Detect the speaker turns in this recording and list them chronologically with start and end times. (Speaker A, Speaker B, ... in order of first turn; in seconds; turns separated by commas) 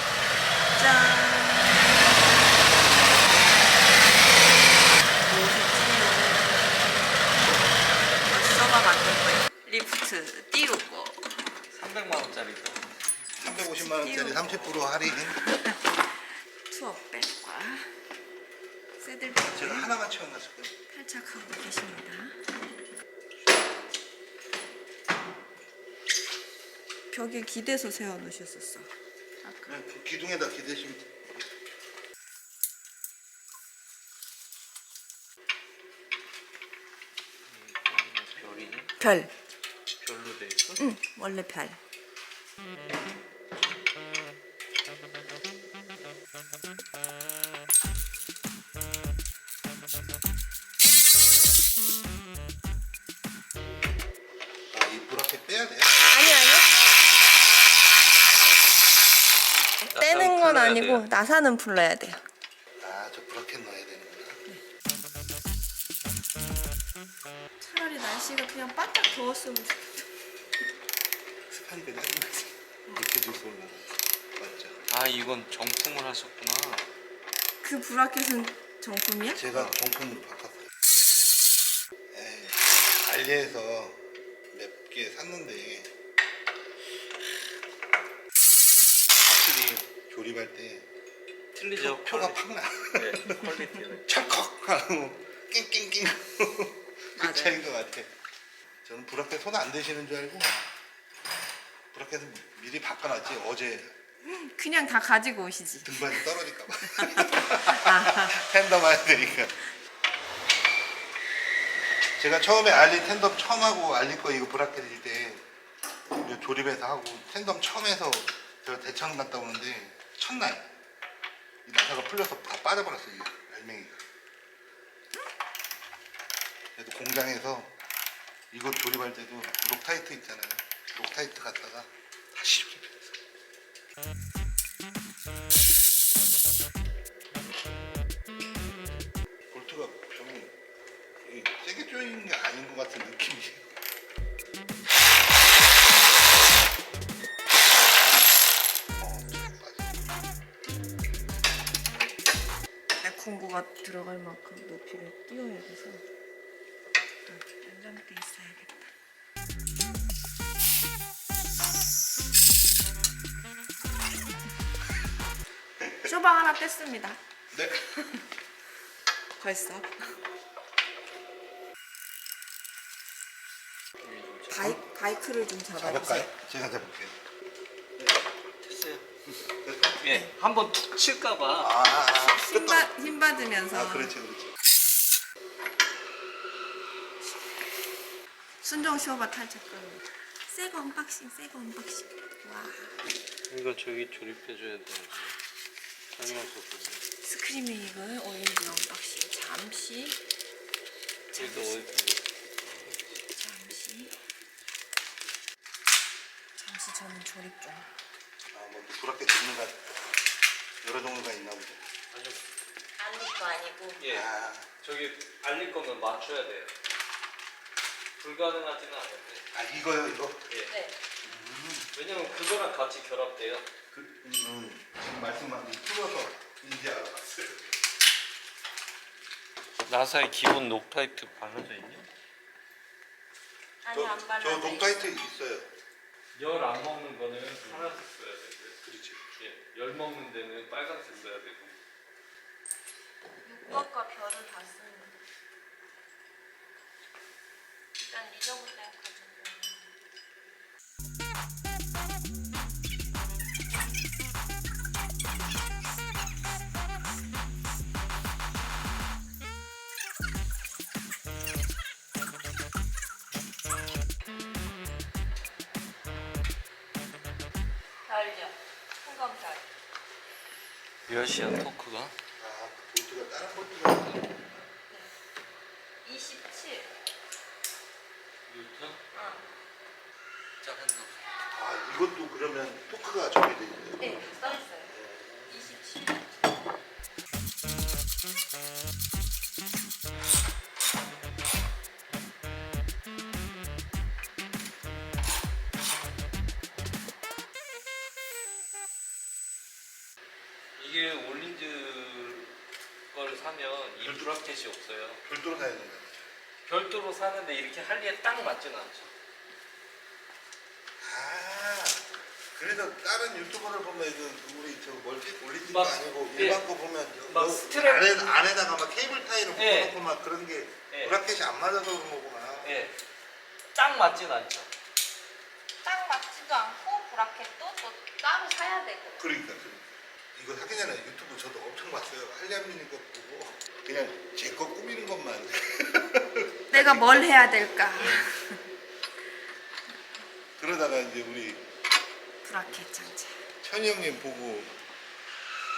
Speaker A: 0.7-2.3, Speaker A: 3.2-3.6, Speaker A: 5.1-7.6, Speaker A: 8.1-11.5, Speaker B: 11.7-13.0, Speaker C: 13.4-15.4, Speaker A: 13.5-16.1, Speaker A: 16.7-17.9, Speaker A: 19.0-19.9, Speaker C: 19.4-20.7, Speaker A: 20.9-22.5, Speaker A: 27.1-28.9, Speaker A: 29.4-29.8, Speaker C: 29.7-31.0, Speaker B: 37.5-38.9, Speaker A: 39.0-39.3, Speaker B: 40.0-40.9, Speaker A: 40.8-41.8, Speaker C: 54.7-55.9, Speaker A: 56.1-56.7, Speaker A: 59.8-62.2, Speaker B: 59.9-61.1, Speaker C: 62.8-64.4, Speaker A: 67.6-70.1, Speaker C: 71.5-74.8, Speaker B: 74.9-76.8, Speaker A: 77.6-79.6, Speaker C: 79.3-80.7, Speaker C: 82.1-84.0, Speaker C: 84.5-85.9, Speaker C: 89.2-90.8, Speaker B: 91.5-92.4, Speaker C: 91.7-98.1, Speaker B: 93.0-94.1, Speaker A: 97.2-97.6, Speaker C: 98.8-100.6, Speaker C: 101.9-103.9, Speaker A: 104.2-108.5, Speaker C: 105.8-109.6, Speaker C: 112.2-115.4, Speaker C: 116.2-120.7, Speaker C: 121.7-124.0, Speaker C: 126.8-127.7, Speaker C: 128.5-133.1, Speaker C: 139.5-140.5, Speaker C: 141.2-143.7, Speaker C: 149.0-149.9, Speaker A: 153.0-156.0, Speaker A: 157.3-158.9, Speaker A: 166.0-167.2, Speaker C: 167.5-167.8, Speaker A: 169.4-170.2, Speaker B: 174.0-174.8, Speaker A: 174.5-176.3, Speaker C: 175.8-177.2, Speaker B: 178.6-179.0, Speaker C: 179.4-180.0, Speaker B: 180.0-181.8, Speaker A: 180.1-180.3, Speaker C: 181.6-183.1, Speaker A: 182.2-184.2, Speaker C: 183.7-184.5, Speaker A: 188.6-193.0, Speaker B: 193.5-195.3, Speaker B: 196.2-197.0, Speaker A: 197.2-200.2, Speaker A: 201.3-201.9, Speaker B: 201.4-202.2, Speaker A: 203.3-204.2, Speaker A: 206.6-207.9, Speaker C: 208.5-209.9, Speaker C: 210.8-211.8, Speaker B: 212.1-212.4, Speaker A: 213.0-214.0, Speaker B: 214.0-214.3, Speaker C: 214.0-214.7, Speaker B: 214.8-216.7, Speaker B: 218.2-219.4, Speaker C: 219.5-220.5, Speaker A: 220.7-221.0, Speaker C: 221.2-221.9, Speaker B: 221.9-223.7, Speaker C: 223.9-227.8, Speaker B: 229.9-232.1, Speaker A: 233.8-235.2, Speaker C: 233.9-235.7, Speaker B: 236.3-238.8, Speaker C: 238.8-239.2, Speaker B: 239.3-241.8, Speaker A: 243.4-245.2, Speaker A: 248.0-249.9, Speaker A: 268.1-269.6, Speaker B: 271.1-272.1, Speaker C: 272.4-274.7, Speaker A: 276.1-276.9, Speaker B: 278.5-279.0, Speaker A: 279.1-279.4, Speaker B: 280.6-281.1, Speaker C: 281.5-285.6, Speaker A: 284.0-284.9, Speaker A: 285.5-286.3, Speaker B: 300.8-302.5, Speaker B: 303.1-305.2, Speaker C: 304.0-304.3, Speaker C: 305.2-306.3, Speaker B: 306.6-309.1, Speaker C: 311.0-322.8, Speaker B: 315.7-316.6, Speaker B: 317.3-318.1, Speaker B: 319.6-319.9, Speaker B: 322.6-322.9, Speaker B: 323.7-324.7, Speaker A: 325.8-329.2, Speaker C: 329.2-337.3, Speaker A: 336.7-338.6, Speaker C: 337.9-338.3, Speaker C: 340.6-341.6, Speaker A: 342.4-343.5, Speaker C: 343.6-344.7